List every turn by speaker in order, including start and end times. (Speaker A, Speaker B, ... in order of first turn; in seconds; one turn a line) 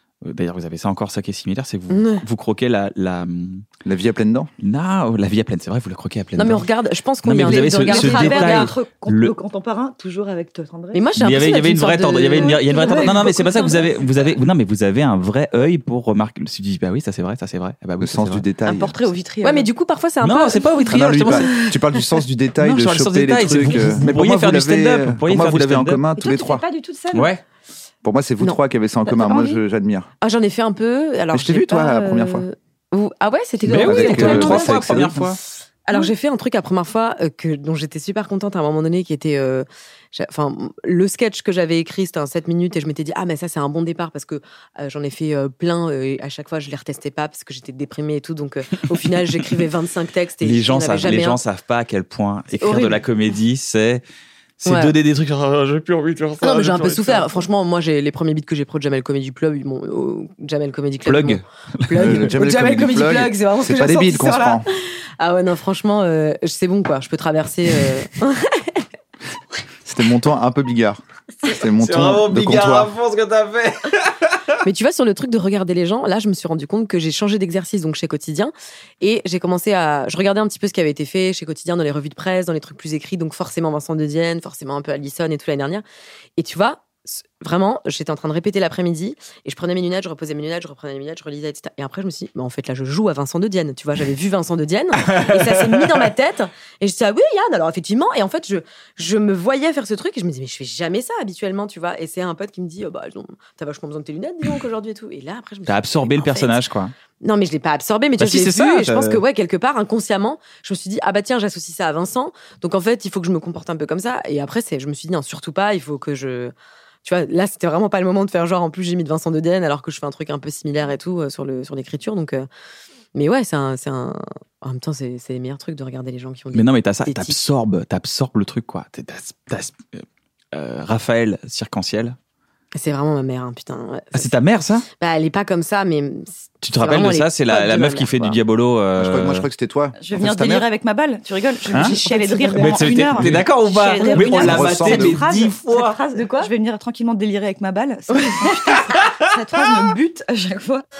Speaker A: 0.2-3.6
Speaker B: 1.9-2.2
Speaker C: 3.8-4.5
Speaker A: 4.6-6.7
Speaker B: 6.3-8.7
Speaker A: 7.2-9.3
Speaker D: 7.4-11.1
Speaker B: 10.9-13.3
Speaker A: 11.2-18.4
Speaker D: 12.3-14.4
Speaker C: 18.0-19.0
Speaker D: 18.6-19.7
Speaker B: 19.4-21.7
Speaker A: 20.2-21.5
Speaker C: 20.8-26.6
Speaker A: 22.6-26.1
Speaker B: 23.7-24.1
Speaker D: 26.1-27.3
Speaker A: 27.1-27.4
Speaker C: 28.0-30.1
Speaker B: 30.2-35.1
Speaker C: 31.3-32.4
Speaker C: 33.6-35.3
Speaker A: 33.7-35.4
Speaker B: 35.9-51.4
Speaker A: 50.4-54.0
Speaker B: 52.5-53.0
Speaker A: 54.6-57.3
Speaker B: 54.6-54.9
Speaker B: 56.4-64.7
Speaker A: 61.0-62.3
Speaker C: 61.9-64.7
Speaker B: 65.2-68.8
Speaker C: 69.8-72.9
Speaker A: 71.8-74.4
Speaker B: 74.6-85.8
Speaker B: 86.4-106.6
Speaker A: 95.0-95.8
Speaker A: 105.7-106.9
Speaker B: 107.2-116.5
Speaker A: 108.2-109.2
Speaker B: 117.0-122.5
Speaker B: 123.1-127.4
Speaker A: 126.5-132.2
Speaker B: 132.8-134.3
Speaker A: 134.1-134.9
Speaker B: 135.0-138.4
Speaker A: 136.6-139.4
Speaker C: 138.9-140.7
Speaker D: 140.0-150.8
Speaker B: 141.8-142.9
Speaker A: 142.6-146.0
Speaker C: 143.1-143.4
Speaker B: 144.0-144.7
Speaker C: 144.3-145.2
Speaker B: 146.1-146.5
Speaker A: 148.8-149.2